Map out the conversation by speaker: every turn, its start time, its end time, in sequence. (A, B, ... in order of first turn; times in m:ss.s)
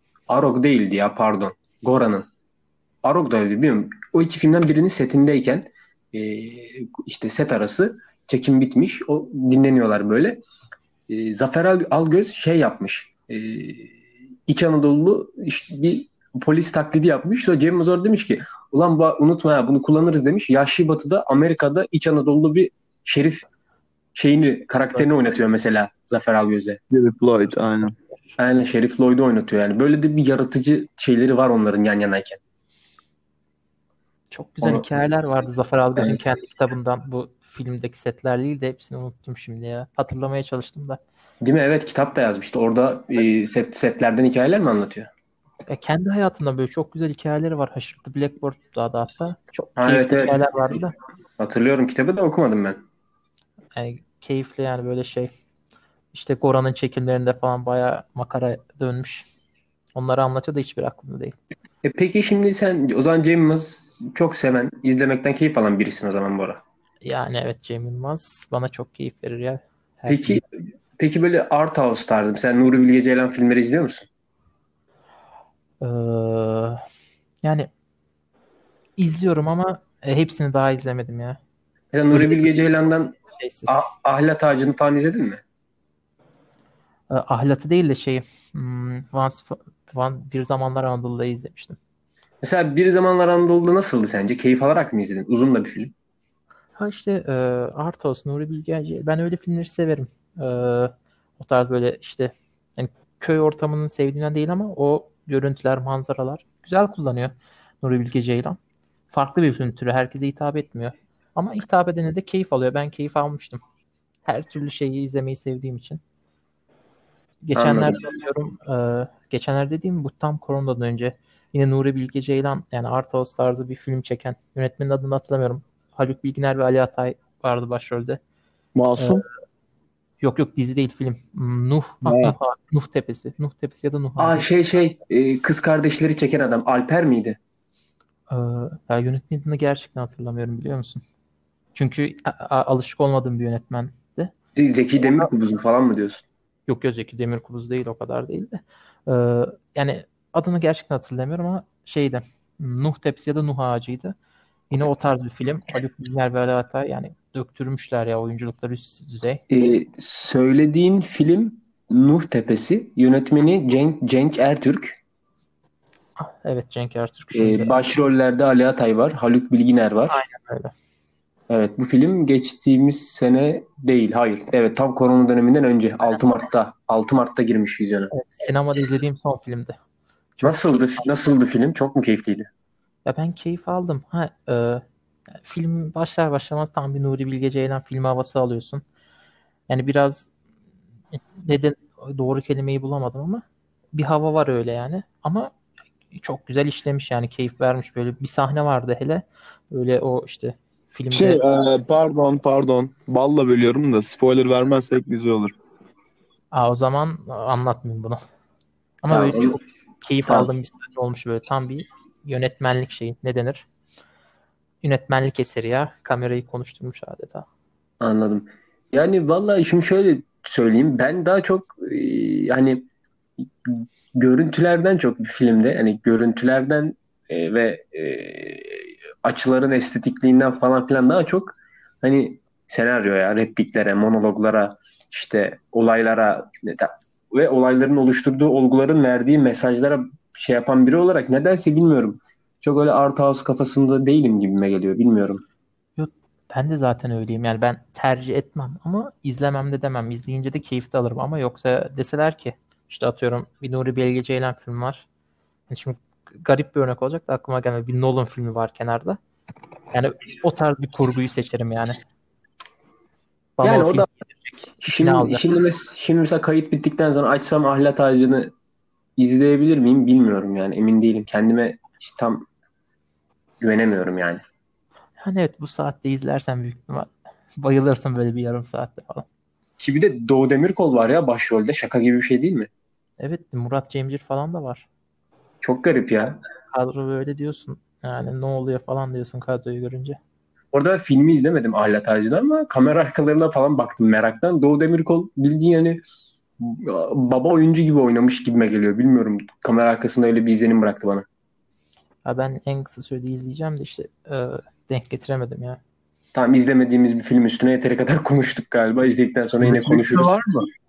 0:00.3-0:02.3 A
0:03.0-0:10.4 A
0:11.1-0:13.9 A
0:14.5-0:23.4 A
0:24.1-0:26.8 A
0:26.9-0:27.9 B
0:27.8-0:28.4 C
0:28.4-0:32.4 A
0:34.3-0:41.0 C
0:41.4-0:45.1 A
0:45.7-0:50.9 C
0:49.8-0:50.4 A
0:51.4-0:52.8 A
0:53.8-0:55.3 C
0:56.1-0:59.3 C
0:59.9-1:01.4 C
1:01.8-1:06.6 A
1:07.0-1:10.4 C
1:10.1-1:10.4 A
1:11.0-1:14.1 A
1:15.8-1:16.8 C
1:17.4-1:17.7 C
1:19.0-1:21.4 C
1:21.9-1:25.4 A
1:22.1-1:22.5 C
1:23.4-1:23.8 C
1:27.1-1:31.8 C
1:32.4-1:35.9 A
1:36.8-1:48.6 C
1:49.1-1:53.6 C
1:54.2-1:56.0 C
1:57.4-2:08.2 C
1:57.6-1:58.0 A
2:08.8-2:09.2 B
2:09.0-2:09.2 C
2:10.2-2:14.4 C
2:12.0-2:12.4 B
2:14.2-2:17.4 A
2:18.3-2:21.0 C
2:21.8-2:24.3 C
2:24.6-2:26.2 A
2:25.0-2:25.3 C
2:26.7-2:34.1 C
2:34.7-2:39.4 C
2:39.5-2:45.0 A
2:46.2-2:47.8 C
2:47.3-2:50.2 A
2:50.1-2:50.7 C
2:51.5-2:58.1 A
2:58.1-2:59.8 C
3:00.4-3:01.0 C
3:00.4-3:02.5 A
3:03.0-3:04.8 C
3:05.4-3:08.8 C
3:09.7-3:10.3 C
3:11.1-3:15.5 C
3:16.1-3:21.4 C
3:21.1-3:25.6 B
3:26.5-3:28.2 C
3:29.0-3:33.6 C
3:29.1-3:29.6 A
3:34.8-3:37.4 C
3:38.0-3:42.9 A
3:43.6-4:05.4 A
4:06.0-4:15.0 C
4:15.7-4:19.2 C
4:19.9-4:22.0 C
4:23.6-4:25.4 C
4:23.6-4:24.1 A
4:24.8-4:28.5 A
4:29.2-4:32.5 A
4:33.6-4:34.4 A
4:35.2-4:39.2 C
4:39.8-4:42.7 A
4:43.2-4:44.9 C
4:45.6-4:46.4 A
4:46.7-4:50.2 C
4:50.7-4:56.0 A
4:56.6-5:01.2 A
5:02.2-5:05.8 C
5:06.4-5:10.3 A
5:09.6-5:10.6 B